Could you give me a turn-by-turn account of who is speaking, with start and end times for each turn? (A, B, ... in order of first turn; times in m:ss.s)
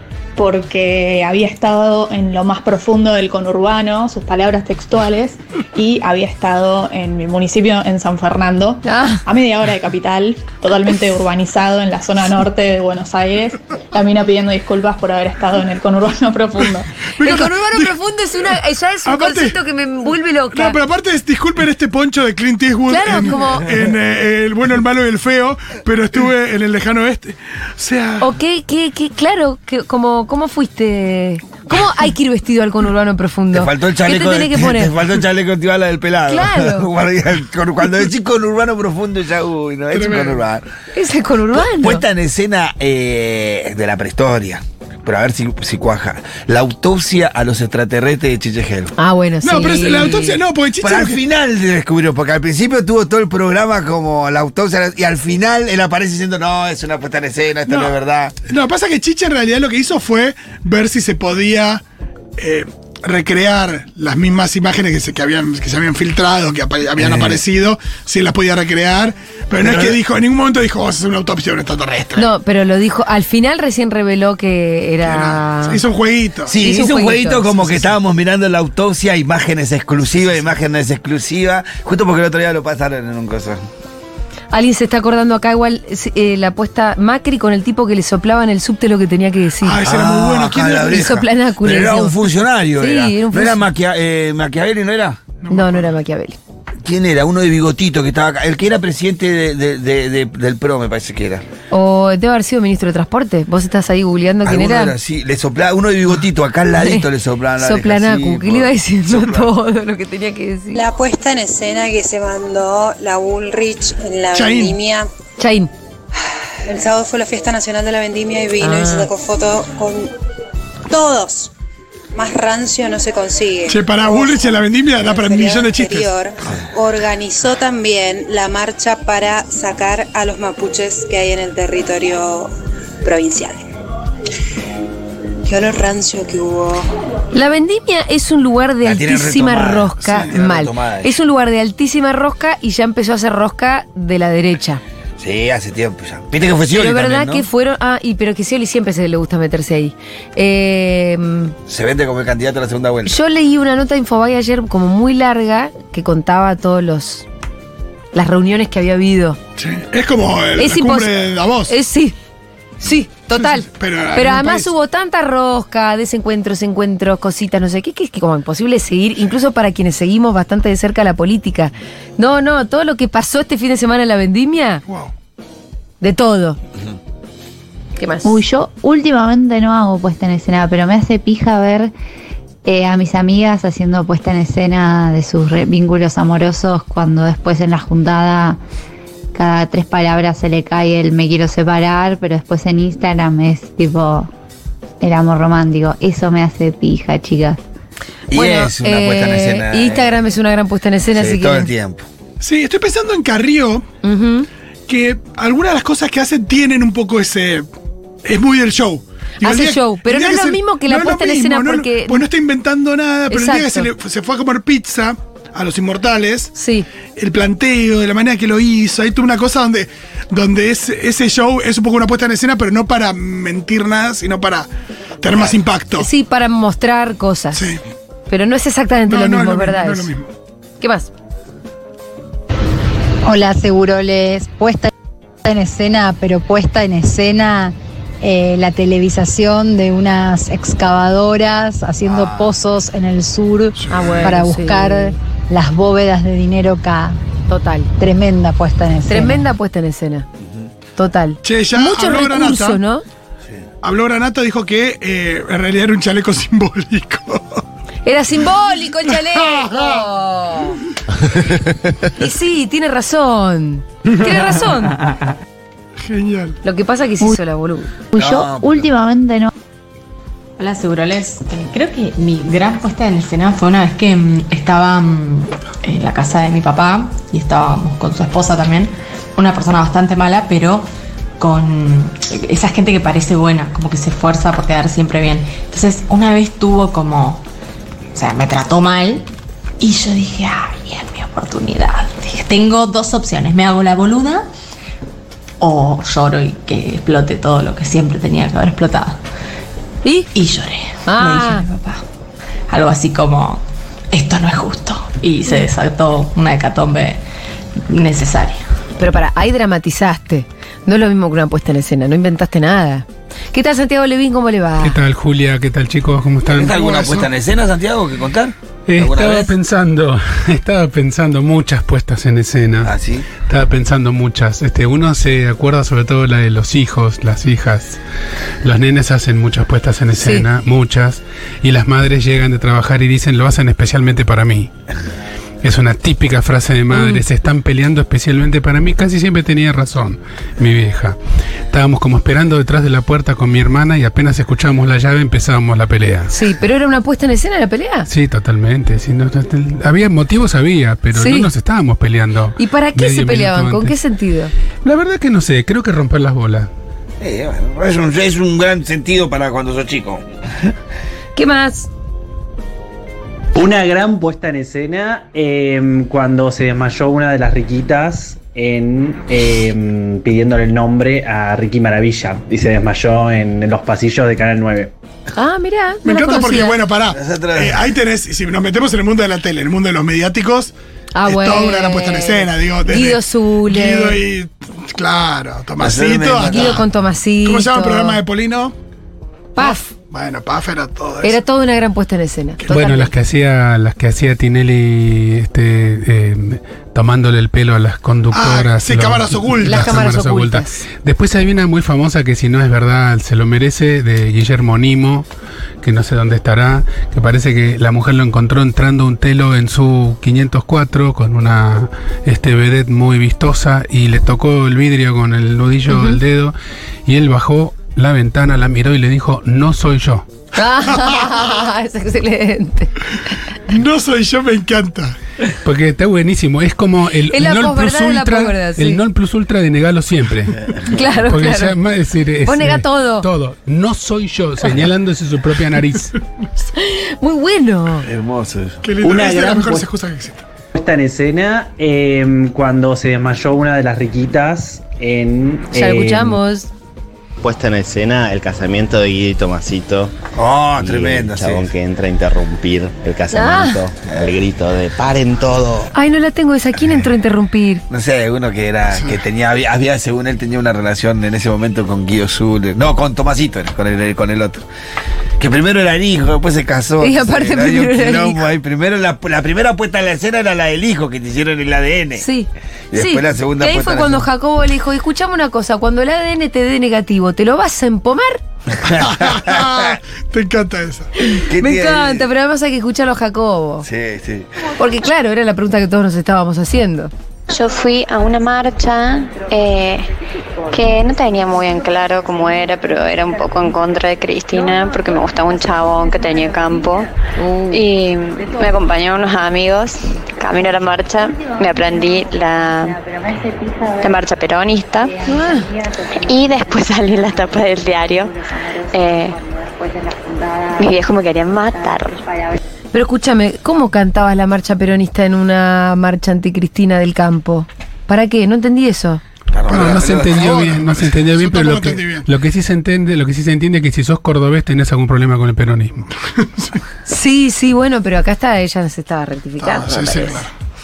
0:00.4-0:16.9 A
0:08.8-0:09.2 B
0:17.2-0:19.6 C
0:17.2-0:20.8 B
0:20.5-0:28.3 C
0:22.9-0:23.7 B
0:28.2-0:34.9 B
0:33.5-0:40.7 D
0:36.3-0:36.9 B
0:39.9-0:40.4 C
0:41.0-0:42.0 B
0:41.5-0:48.9 D
0:49.0-0:50.4 B
0:49.4-0:51.2 C
0:50.8-0:58.4 D
0:57.7-0:57.9 C
0:58.5-1:01.8 C
1:02.4-1:12.3 C
1:07.0-1:07.4 D
1:09.6-1:10.0 D
1:12.2-1:15.8 B
1:15.0-1:16.6 C
1:16.5-1:23.6 D
1:16.6-1:17.5 B
1:24.5-1:29.8 B
1:29.6-1:31.1 C
1:29.8-1:35.2 D
1:30.9-1:33.6 B
1:35.4-1:35.9 C
1:35.5-1:36.4 B
1:36.8-1:41.4 D
1:41.7-1:44.9 B
1:44.4-1:49.5 D
1:46.8-1:47.1 B
1:47.6-1:50.8 B
1:50.7-1:55.1 E
1:54.3-1:54.8 C
1:55.4-1:55.7 B
1:56.6-2:00.1 E
1:58.6-1:59.1 B
2:00.9-2:01.5 E
2:02.2-2:12.5 E
2:03.7-2:06.6 C
2:13.0-2:13.6 E
2:15.5-2:16.9 E
2:17.3-2:24.8 B
2:18.8-2:21.2 D
2:25.2-2:27.5 D
2:26.7-2:31.6 B
2:31.7-2:33.2 D
2:33.1-2:37.2 B
2:38.1-2:39.4 B
2:39.6-2:41.8 C
2:40.6-2:41.1 B
2:41.7-2:42.2 B
2:42.8-2:54.8 B
2:43.3-2:44.7 C
2:54.9-2:55.1 C
2:56.0-2:56.6 B
2:58.0-2:58.4 B
2:58.2-3:01.9 F
3:02.6-3:08.6 F
3:09.3-3:14.3 F
3:15.0-3:17.6 F
3:18.3-3:20.2 D
3:18.3-3:21.7 B
3:21.1-3:22.0 D
3:22.4-3:23.9 C
3:24.0-3:24.5 B
3:24.9-3:27.7 C
3:28.2-3:36.5 C
3:29.4-3:32.2 B
3:33.3-3:33.9 B
3:36.6-3:36.9 B
3:37.2-3:44.7 C
3:45.2-3:46.1 C
3:46.0-3:47.7 B
3:47.5-3:47.8 C
3:48.3-3:50.1 B
3:49.1-3:50.3 C
3:50.8-3:51.1 B
3:53.2-3:54.9 G
3:55.5-4:07.2 G
4:02.0-4:02.6 D
4:03.8-4:04.4 C
4:03.9-4:04.9 B
4:07.5-4:07.9 B
4:08.0-4:09.5 G
4:09.1-4:10.3 B
4:10.4-4:10.7 D
4:11.0-4:13.0 B
4:11.4-4:12.8 C
4:13.8-4:17.6 C
4:18.0-4:20.8 B
4:19.1-4:20.1 C
4:21.3-4:21.6 D
4:22.2-4:25.0 B
4:26.0-4:26.6 C
4:26.6-4:27.9 B
4:28.1-4:29.5 F
4:28.2-4:28.9 D
4:30.6-4:40.9 H
4:41.4-4:47.4 H
4:48.1-4:49.3 H
4:49.8-4:54.5 H
4:55.6-4:59.2 H
5:00.3-5:02.0 H
5:01.0-5:01.6 B
5:02.7-5:07.2 H
5:07.8-5:08.7 H
5:09.0-5:15.0 B
5:14.8-5:16.7 I
5:16.4-5:19.6 D
5:16.7-5:17.3 C
5:18.9-5:22.9 I
5:22.8-5:23.3 D
5:23.4-5:28.0 I
5:28.6-5:34.7 I
5:30.2-5:30.5 B
5:35.6-5:41.2 I
5:36.9-5:37.2 B
5:41.7-5:46.3 I
5:46.3-5:48.1 B
5:48.1-5:54.0 I
5:51.1-5:51.5 B
5:52.6-5:54.5 B
5:54.8-5:56.7 I
5:57.2-6:00.7 D
6:01.4-6:01.9 B
6:03.5-6:14.9 J
6:15.4-6:16.8 B
6:16.0-6:20.7 C
6:17.1-6:17.9 D
6:21.2-6:24.2 B
6:21.2-6:26.8 C
6:25.8-6:26.8 D
6:26.5-6:28.2 B
6:27.4-6:28.8 C
6:29.6-6:29.9 B
6:29.6-6:31.4 C
6:31.2-6:33.1 B
6:32.6-6:32.8 C
6:32.7-6:45.2 I
6:38.3-6:39.9 C
6:39.6-6:40.8 B
6:45.8-7:00.3 I
6:55.9-6:56.2 B
7:00.6-7:02.9 B
7:03.7-7:05.2 C
7:05.6-7:16.1 I
7:07.3-7:09.0 B
7:10.9-7:11.8 B
7:12.4-7:13.3 B
7:16.8-7:18.1 B
7:18.0-7:18.8 D
7:18.8-7:20.4 C
7:19.0-7:19.9 J
7:20.7-7:26.4 J
7:25.7-7:26.7 B
7:27.4-7:30.2 K
7:30.3-7:31.7 D
7:30.8-7:35.9 K
7:33.3-7:33.8 B
7:35.9-7:37.8 B
7:37.9-7:44.6 D
7:45.4-7:52.3 D
7:47.0-7:48.5 B
7:52.2-7:58.4 B
7:52.9-7:54.3 D
7:58.8-8:00.0 D
7:58.9-8:01.1 C
8:01.2-8:03.9 B
8:01.5-8:02.3 D
8:03.8-8:04.5 D
8:04.8-8:07.1 B
8:07.5-8:10.1 L
8:10.7-8:17.1 L
8:17.4-8:17.8 B
8:17.7-8:23.0 L
8:24.0-8:25.2 L
8:25.3-8:25.7 B
8:26.3-8:28.4 L
8:28.9-8:29.4 L
8:30.8-8:32.2 L
8:32.9-8:39.2 B
8:39.5-8:40.7 D
8:39.7-8:42.3 C
8:39.7-8:46.1 I
8:47.1-8:50.4 B
8:49.6-8:50.5 C